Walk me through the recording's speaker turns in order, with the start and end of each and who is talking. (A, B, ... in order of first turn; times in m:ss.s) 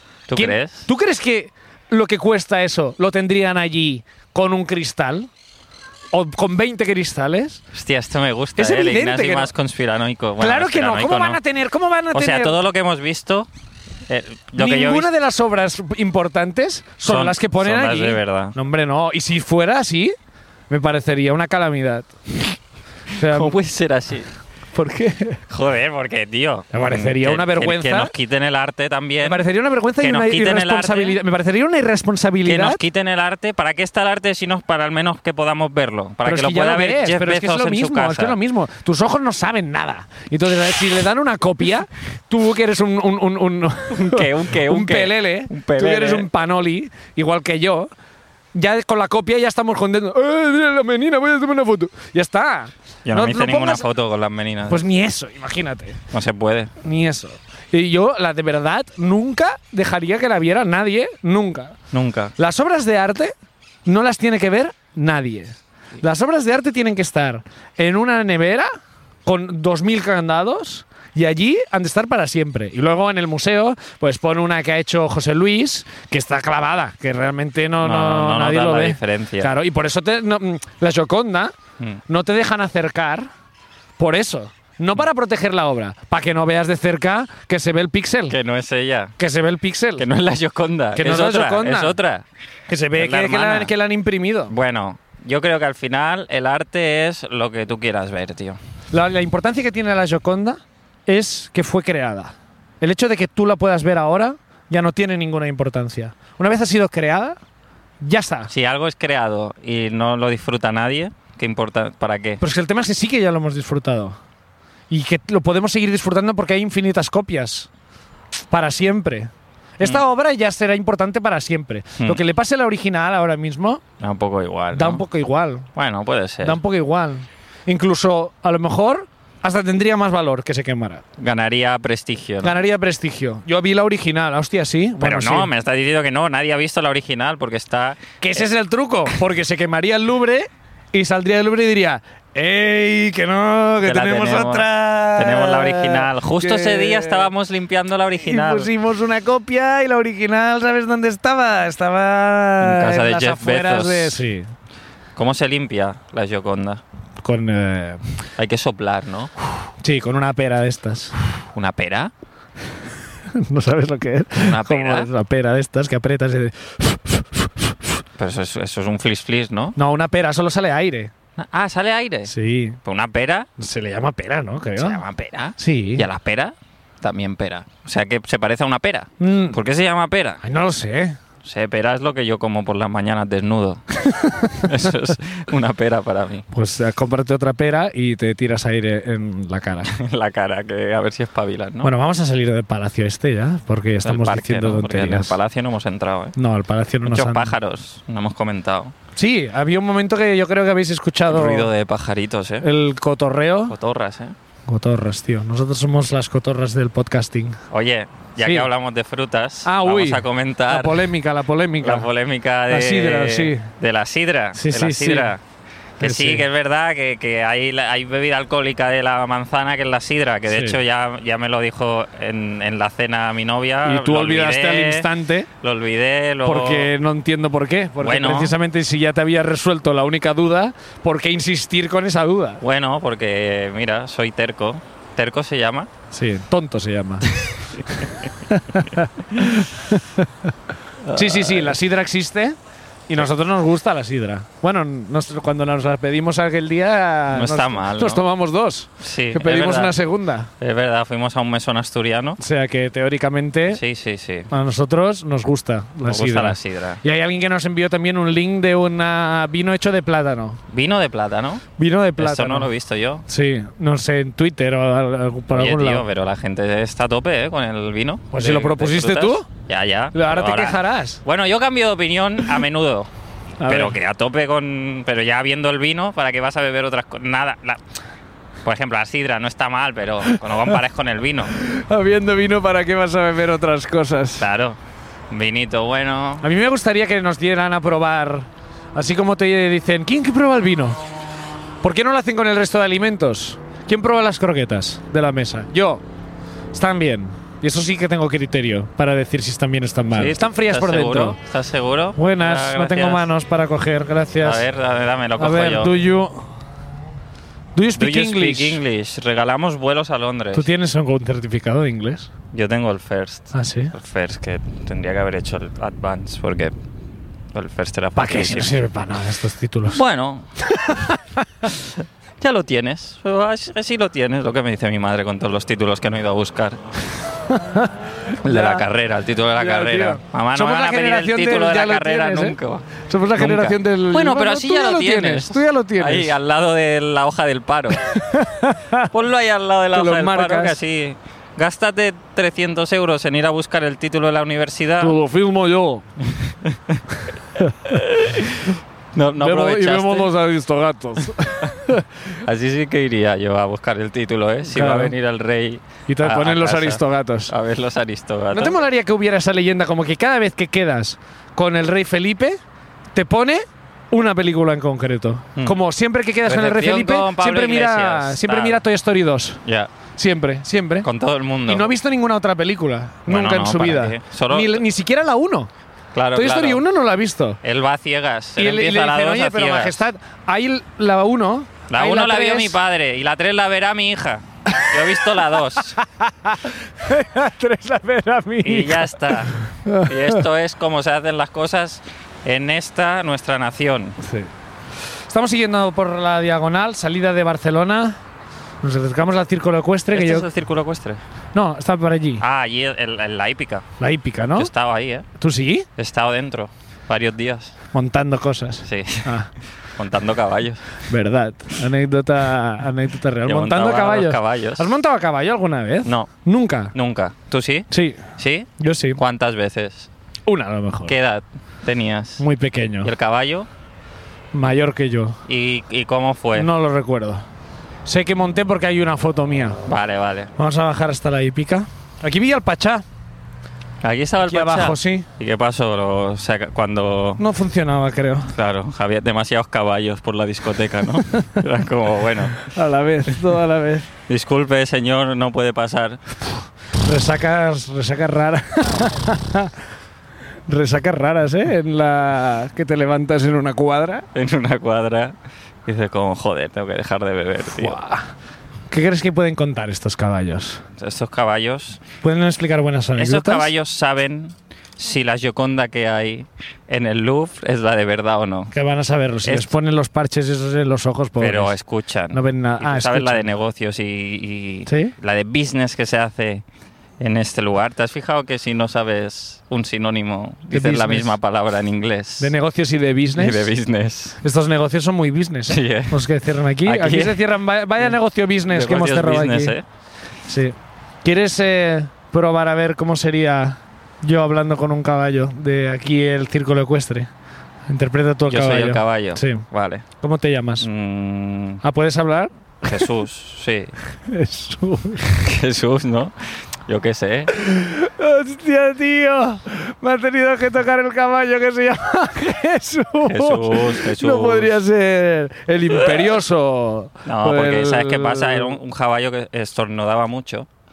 0:00.3-0:00.9 A
0:00.4-0:05.3 B
0:06.1-0:07.6 B
0:07.7-0:11.4 A
0:08.6-0:09.5 B
0:10.4-0:12.6 B
0:12.1-0:13.5 A
0:14.1-0:15.1 A
0:14.6-0:20.2 B
0:17.0-0:18.6 A
0:20.7-0:22.6 B
0:23.1-0:23.6 B
0:23.2-0:24.3 A
0:24.7-0:25.4 B
0:25.5-0:29.4 A
0:26.7-0:28.1 B
0:29.2-0:32.8 B
0:30.0-0:31.2 A
0:32.4-0:38.4 A
0:36.2-0:47.9 B
0:43.9-0:46.3 A
0:48.5-0:53.9 B
0:53.1-0:54.8 A
0:54.7-0:56.0 B
0:56.1-0:56.7 A
0:56.8-1:01.8 B
1:01.9-1:02.3 A
1:02.4-1:03.3 B
1:03.9-1:08.7 B
1:09.3-1:21.5 B
1:17.8-1:19.5 A
1:22.1-1:23.3 B
1:24.0-1:28.4 B
1:28.3-1:29.2 A
1:29.2-1:30.1 B
1:30.0-1:32.3 A
1:31.0-1:32.0 B
1:32.7-1:34.5 B
1:33.0-1:33.7 A
1:34.5-1:38.6 A
1:38.9-1:47.4 B
1:48.0-1:48.5 B
1:48.5-1:52.4 A
1:52.4-1:54.2 B
1:54.9-1:57.7 B
1:58.5-2:03.8 B
2:04.0-2:05.0 A
2:04.7-2:05.7 B
2:05.8-2:06.6 A
2:06.4-2:11.0 B
2:11.2-2:12.6 A
2:12.4-2:15.5 B
2:15.0-2:18.5 A
2:18.2-2:27.3 B
2:23.8-2:28.7 A
2:28.2-2:34.5 B
2:32.6-2:34.2 A
2:35.2-2:36.8 A
2:37.2-2:38.1 B
2:38.4-2:39.3 A
2:39.8-2:41.2 B
2:41.5-2:42.1 A
2:43.3-2:48.0 B
2:44.4-2:45.1 A
2:48.2-2:49.8 A
2:49.8-2:51.1 B
2:51.4-2:52.3 A
2:52.3-2:52.8 B
2:52.8-2:53.5 A
2:53.6-2:55.0 B
2:54.8-3:00.4 A
2:55.6-2:56.0 B
2:59.2-2:59.6 B
3:00.4-3:01.2 B
3:01.4-3:03.8 A
3:04.0-3:04.9 B
3:04.6-3:06.5 A
3:06.5-3:09.9 B
3:09.9-3:11.9 A
3:11.8-3:15.4 B
3:14.0-3:16.4 A
3:16.4-3:17.6 B
3:17.0-3:19.0 A
3:19.2-3:21.7 B
3:21.3-3:22.7 A
3:22.6-3:23.8 B
3:23.7-3:24.4 A
3:24.7-3:27.6 B
3:27.7-3:31.1 A
3:28.4-3:28.7 B
3:29.6-3:32.1 B
3:31.8-3:35.4 A
3:32.7-3:33.7 B
3:34.5-3:35.3 B
3:36.0-3:36.4 B
3:36.0-3:45.1 A
3:40.5-3:40.8 B
3:43.8-3:45.5 B
3:45.6-3:46.9 A
3:46.4-3:52.6 B
3:48.0-3:48.6 A
3:52.6-3:55.9 A
3:56.1-4:00.5 B
4:01.0-4:01.8 A
4:01.1-4:02.6 B
4:03.1-4:10.5 B
4:07.3-4:08.2 A
4:09.0-4:10.0 A
4:10.6-4:12.4 A
4:12.4-4:13.8 B
4:13.7-4:14.5 A
4:14.5-4:20.6 B
4:16.1-4:17.0 A
4:20.7-4:21.6 A
4:21.8-4:22.7 B
4:22.2-4:23.2 A
4:23.3-4:26.0 B
4:25.5-4:33.1 A
4:28.3-4:29.5 B
4:30.1-4:31.2 B
4:33.6-4:34.0 B
4:33.7-4:37.8 A
4:38.6-4:41.5 A
4:40.3-4:40.7 B
4:41.5-4:44.5 B
4:44.4-4:44.8 A
4:45.3-4:46.4 A
4:46.4-4:51.0 B
4:51.8-4:56.0 B
4:56.7-5:01.4 B
5:00.1-5:03.3 A
5:02.2-5:04.7 B
5:04.4-5:06.0 A
5:05.4-5:06.5 B
5:07.8-5:08.8 B
5:07.9-5:10.7 A
5:10.5-5:12.3 B
5:12.5-5:16.8 A
5:13.5-5:13.9 B
5:17.5-5:18.8 A
5:18.2-5:20.0 B
5:19.9-5:20.5 A
5:20.6-5:21.4 B
5:21.6-5:26.8 A
5:27.5-5:28.8 B
5:28.4-5:38.1 A
5:29.6-5:36.4 B
5:38.0-5:39.1 B
5:39.1-5:45.2 A
5:39.9-5:40.8 B
5:45.0-5:46.0 B
5:46.6-5:47.0 A
5:47.8-5:50.3 A
5:49.4-5:52.1 B
5:52.4-5:58.8 A
5:54.7-5:55.1 B
5:56.1-5:57.5 B
5:58.5-6:02.6 B
6:03.2-6:09.6 B
6:06.4-6:08.8 A
6:09.6-6:09.9 A
6:10.2-6:11.1 B
6:11.0-6:11.9 A
6:11.7-6:15.7 B
6:13.3-6:14.8 A
6:16.1-6:16.8 A
6:16.3-6:17.6 B
6:17.6-6:20.0 A
6:18.6-6:22.8 B
6:21.9-6:26.0 A
6:25.8-6:30.4 B
6:28.6-6:34.2 A
6:34.2-6:34.5 B
6:35.3-6:38.2 B
6:38.8-6:40.5 B
6:40.1-6:41.2 A
6:41.5-6:42.4 B
6:42.4-6:43.9 A
6:44.0-6:44.7 B
6:44.6-6:45.3 A
6:45.4-6:45.9 B
6:46.0-6:47.8 A
6:47.9-6:49.5 B
6:48.8-6:49.4 A
6:49.9-6:50.8 A
6:51.1-6:56.9 B
6:53.4-6:55.0 A
6:56.0-6:56.3 A
6:56.9-7:00.1 A
6:57.9-6:58.3 B
6:58.8-6:59.2 B
7:00.5-7:01.2 B
7:01.1-7:02.4 A
7:02.4-7:03.1 B
7:03.0-7:03.7 A
7:04.5-7:05.4 B
7:05.5-7:06.7 A
7:06.6-7:07.4 B
7:08.1-7:09.8 B
7:09.8-7:10.5 A
7:10.6-7:13.0 B
7:14.0-7:17.4 A
7:14.4-7:15.3 B
7:17.4-7:18.5 B
7:18.5-7:22.6 A
7:21.4-7:21.6 B
7:22.6-7:24.1 B
7:24.3-7:26.2 A
7:27.0-7:29.7 B
7:30.7-7:34.3 B
7:34.3-7:38.0 A
7:37.7-7:38.3 B
7:38.9-7:40.8 B
7:41.0-7:42.0 A
7:42.2-7:43.7 B
7:43.2-7:48.7 A
7:48.7-7:51.7 B
7:49.4-7:49.7 A
7:51.4-7:56.6 A
7:52.3-7:53.4 B
7:54.9-7:55.2 B
7:57.2-8:02.5 A
8:00.7-8:01.4 B
8:02.4-8:03.7 B
8:03.4-8:04.4 A
8:04.4-8:09.8 B
8:05.7-8:06.2 A
8:06.8-8:07.5 A
8:08.7-8:09.8 A
8:10.4-8:17.3 B
8:17.9-8:19.6 B
8:18.5-8:20.1 A
8:20.2-8:20.9 B
8:20.8-8:21.8 A
8:21.8-8:23.1 B
8:22.8-8:23.9 A
8:24.3-8:25.4 B
8:25.3-8:27.6 A
8:27.5-8:38.8 B
8:33.3-8:34.8 A
8:35.9-8:36.3 A
8:37.2-8:40.7 A